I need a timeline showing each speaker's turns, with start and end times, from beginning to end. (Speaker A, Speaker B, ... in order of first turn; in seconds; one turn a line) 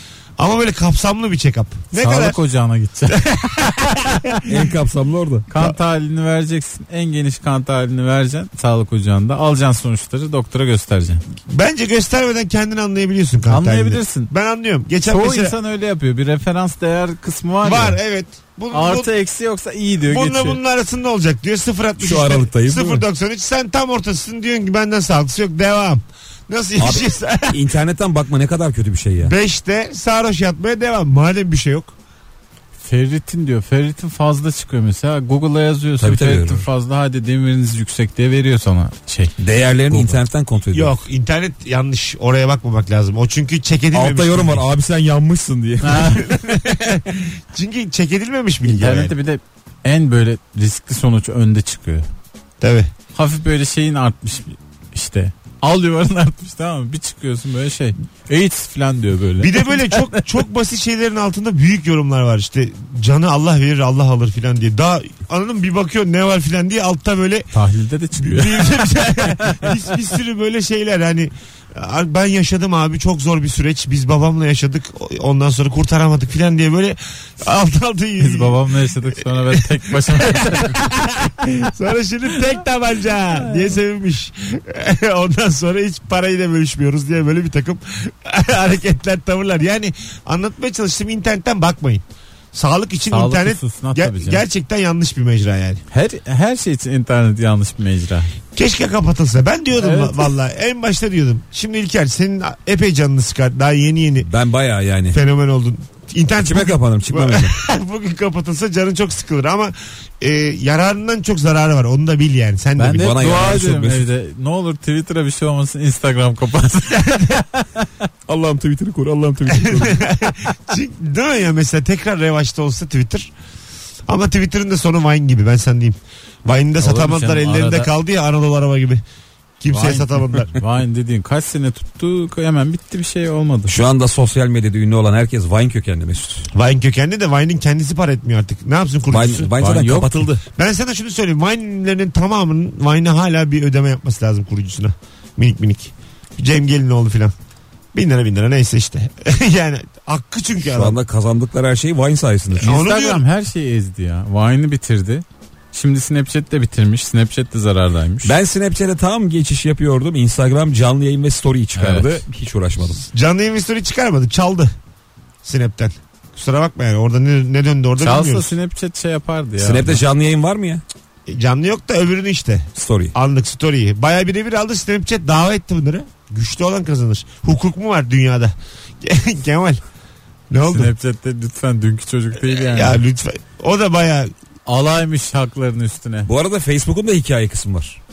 Speaker A: 0.4-2.4
Speaker B: 1.9-4.3
Speaker A: 3.1-4.4
Speaker C: 4.5-5.5
Speaker B: 5.5-11.2
Speaker A: 11.5-15.6
Speaker B: 13.5-14.3
Speaker B: 15.1-18.0
Speaker A: 17.6-19.1
Speaker B: 18.7-20.6
Speaker A: 20.0-27.6
Speaker C: 22.0-23.0
Speaker C: 26.8-29.3
Speaker A: 29.2-31.9
Speaker B: 32.8-39.4
Speaker C: 36.0-36.6
Speaker C: 39.4-41.0
Speaker B: 39.9-40.2
Speaker A: 40.7-44.6
Speaker C: 43.9-46.2
Speaker B: 45.8-46.2
Speaker A: 46.2-49.1
Speaker B: 48.7-52.1
Speaker A: 52.6-52.9
Speaker B: 53.1-60.2
Speaker A: 59.4-67.5
Speaker B: 67.5-69.8
Speaker A: 68.2-78.6
Speaker B: 78.2-80.7
Speaker A: 79.5-95.8
Speaker B: 93.1-94.4
Speaker B: 95.9-98.3
Speaker A: 98.5-104.3
Speaker B: 99.8-100.3
Speaker C: 104.2-105.2
Speaker A: 105.1-113.1
Speaker C: 106.4-107.6
Speaker B: 112.8-117.8
Speaker C: 112.9-114.1
Speaker A: 116.9-117.3
Speaker C: 118.2-120.0
Speaker A: 119.5-123.3
Speaker A: 124.1-129.0
Speaker B: 126.8-127.9
Speaker A: 129.6-130.5
Speaker B: 129.7-133.7
Speaker C: 133.7-136.5
Speaker A: 136.5-139.5
Speaker C: 139.1-140.4
Speaker B: 139.6-140.3
Speaker A: 140.5-147.3
Speaker A: 147.9-151.0
Speaker C: 150.6-152.7
Speaker A: 152.5-153.2
Speaker B: 152.6-158.3
Speaker C: 158.2-163.0
Speaker B: 161.8-162.2
Speaker A: 163.1-164.7
Speaker A: 165.4-168.5
Speaker B: 168.0-170.0
Speaker C: 169.6-170.8
Speaker A: 171.3-179.8
Speaker C: 172.8-173.1
Speaker A: 180.5-180.9
Speaker B: 180.6-183.0
Speaker A: 182.4-184.3
Speaker B: 184.7-186.3
Speaker C: 186.2-188.0